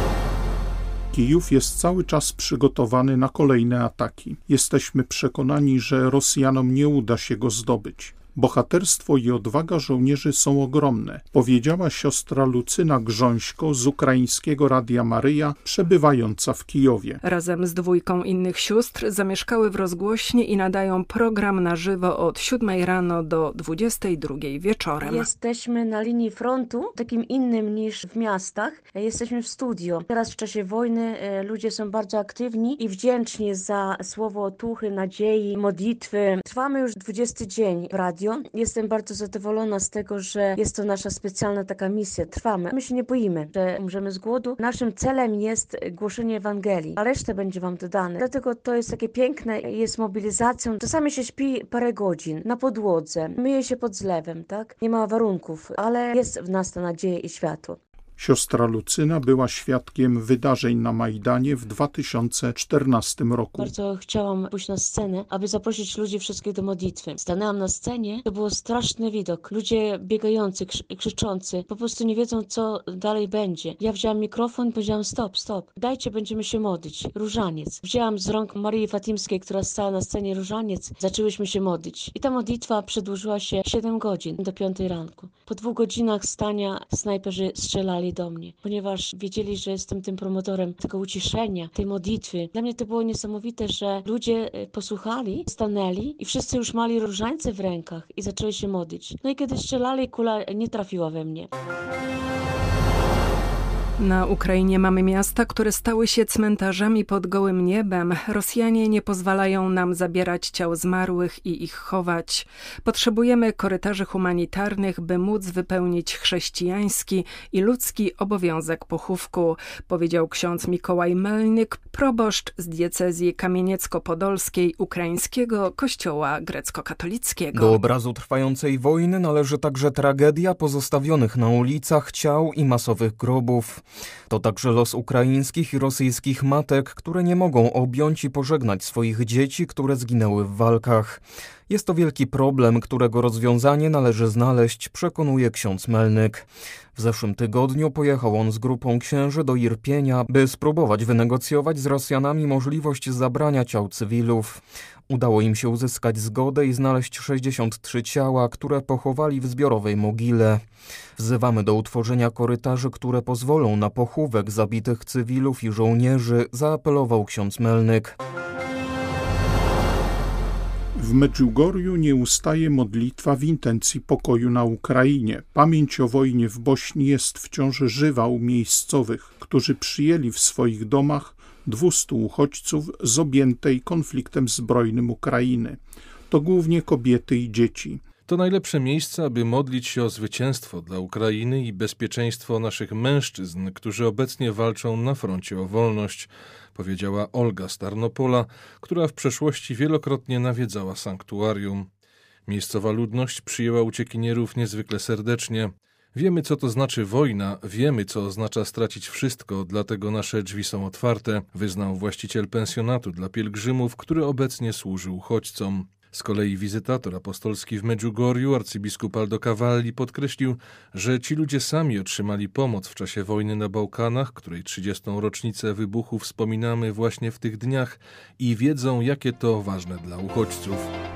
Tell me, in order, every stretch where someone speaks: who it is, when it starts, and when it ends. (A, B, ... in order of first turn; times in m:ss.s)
0:01.1-0:17.2 A
0:17.2-0:25.3 B
0:25.0-0:57.8 C
0:58.2-1:03.7 A
1:03.6-1:41.5 C
1:44.0-2:07.8 B
2:07.5-2:26.4 D
2:27.0-2:40.6 D
2:41.2-2:48.1 D
2:50.9-3:08.0 A
3:08.3-3:21.9 E
3:22.5-3:50.9 E